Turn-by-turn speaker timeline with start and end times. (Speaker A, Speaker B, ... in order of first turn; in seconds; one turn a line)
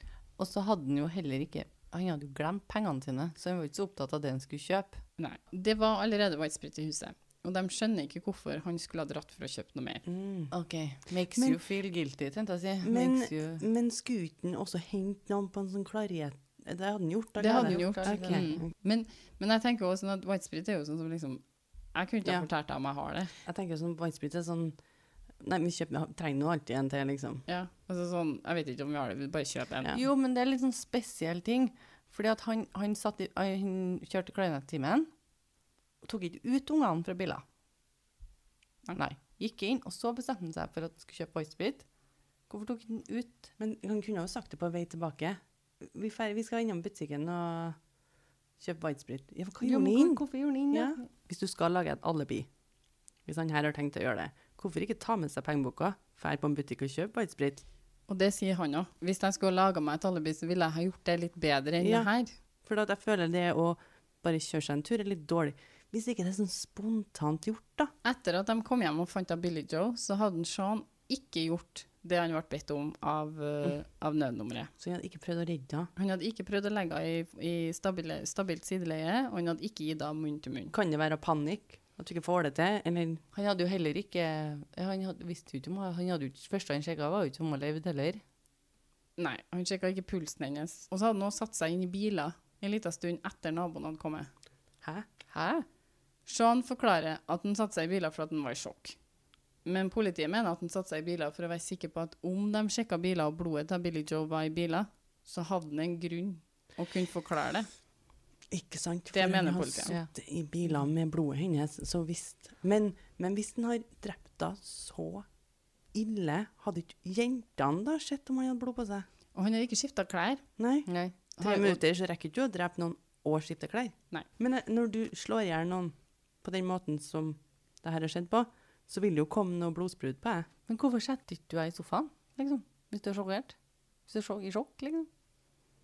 Speaker A: 0.4-5.0
Speaker B: 5.2-10.0
Speaker C: 10.1-11.6
Speaker A: 10.5-13.6
Speaker C: 12.8-18.7
Speaker B: 17.4-23.3
Speaker A: 17.5-18.5
Speaker C: 22.2-22.5
Speaker C: 23.4-27.4
Speaker B: 27.5-29.9
Speaker A: 29.9-35.1
Speaker A: 36.0-37.4
Speaker A: 39.0-42.0
Speaker A: 42.5-43.5
Speaker C: 43.6-47.9
Speaker C: 48.6-52.5
Speaker A: 49.6-51.1
Speaker C: 53.2-57.6
Speaker B: 58.1-62.4
Speaker C: 61.8-67.9
Speaker B: 68.0-74.7
Speaker C: 74.8-75.9
Speaker B: 76.0-80.7
Speaker C: 80.7-83.2
Speaker A: 83.3-88.2
Speaker B: 89.2-94.3
Speaker C: 94.8-95.1
Speaker A: 95.3-95.7
Speaker B: 96.3-99.0
Speaker B: 99.6-107.7
Speaker C: 108.5-115.3
Speaker B: 109.1-110.0
Speaker C: 115.9-119.1
Speaker B: 119.3-120.5
Speaker C: 120.6-130.5
Speaker A: 120.9-121.2
Speaker B: 121.4-121.8
Speaker A: 130.7-135.1